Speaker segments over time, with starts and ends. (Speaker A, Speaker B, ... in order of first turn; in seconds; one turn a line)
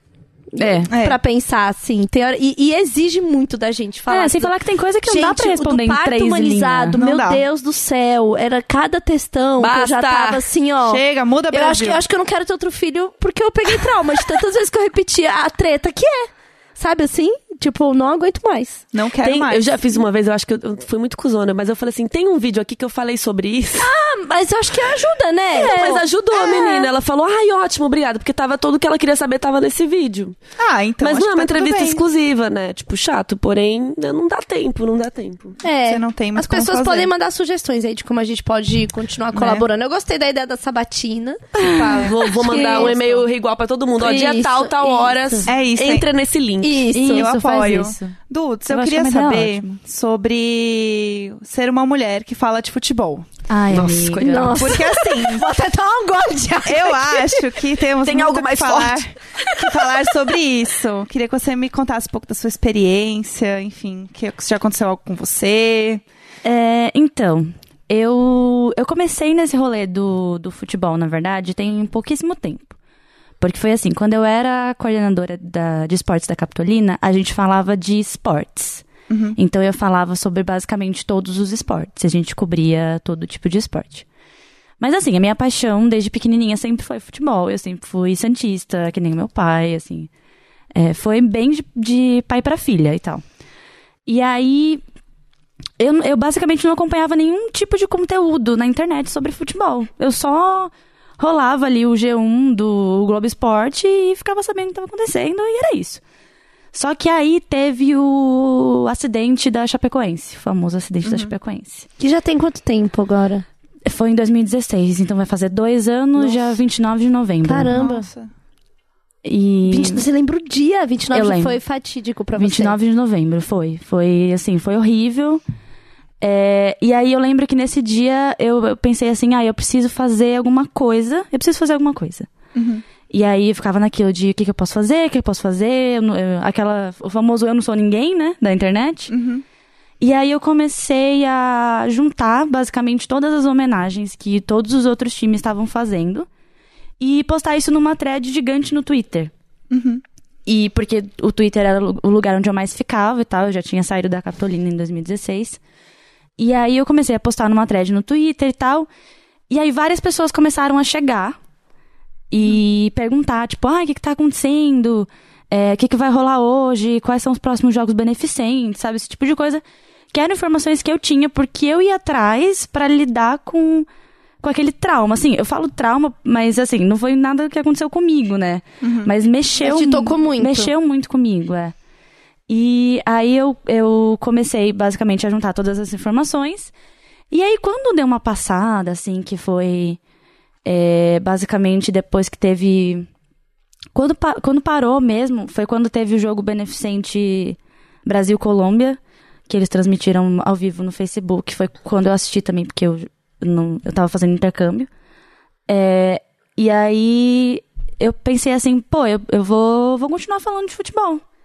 Speaker A: 0.5-4.5
Speaker B: 0.6-0.9
Speaker C: 0.9-1.2
Speaker B: 4.1-7.0
Speaker A: 5.0-18.9
Speaker C: 7.0-7.4
Speaker D: 9.6-10.4
Speaker C: 10.8-12.0
Speaker C: 18.9-19.8
Speaker D: 19.2-23.9
Speaker A: 23.8-26.9
Speaker D: 25.5-30.4
Speaker C: 30.6-32.0
Speaker D: 31.0-35.6
Speaker A: 35.6-43.2
Speaker C: 35.9-37.1
Speaker C: 39.3-39.6
Speaker D: 41.6-46.8
Speaker C: 42.0-43.0
Speaker A: 44.0-45.5
Speaker C: 45.5-46.1
Speaker A: 46.6-47.3
Speaker B: 46.9-49.7
Speaker C: 47.1-53.3
Speaker B: 53.5-54.7
Speaker D: 53.7-54.5
Speaker A: 54.2-57.6
Speaker C: 54.5-55.5
Speaker C: 56.6-66.0
Speaker D: 58.0-59.1
Speaker B: 66.4-72.8
Speaker B: 73.4-84.0
Speaker C: 79.1-79.4
Speaker B: 84.8-90.1
Speaker B: 90.8-93.2
Speaker B: 94.1-94.8
Speaker B: 95.8-106.0
Speaker B: 106.7-111.9
Speaker C: 111.0-111.3
Speaker A: 112.0-113.5
Speaker B: 113.9-117.9
Speaker C: 116.2-116.5
Speaker A: 117.4-118.0
Speaker C: 117.7-118.3
Speaker B: 119.2-120.0
Speaker A: 119.7-122.8
Speaker B: 121.1-121.6
Speaker B: 122.4-125.4
Speaker B: 126.2-132.3
Speaker C: 132.6-132.8
Speaker B: 133.1-139.1
Speaker C: 139.1-139.4
Speaker B: 140.0-146.3
Speaker B: 147.0-149.3
Speaker C: 149.7-150.0
Speaker B: 150.5-155.6
Speaker B: 156.4-158.9
Speaker B: 159.5-161.4
Speaker B: 162.3-173.9
Speaker B: 174.4-181.7
Speaker C: 178.8-179.1
Speaker A: 179.6-180.7
Speaker B: 182.5-186.7
Speaker B: 187.3-190.0
Speaker B: 190.7-193.1
Speaker B: 193.9-204.9
Speaker B: 205.7-211.2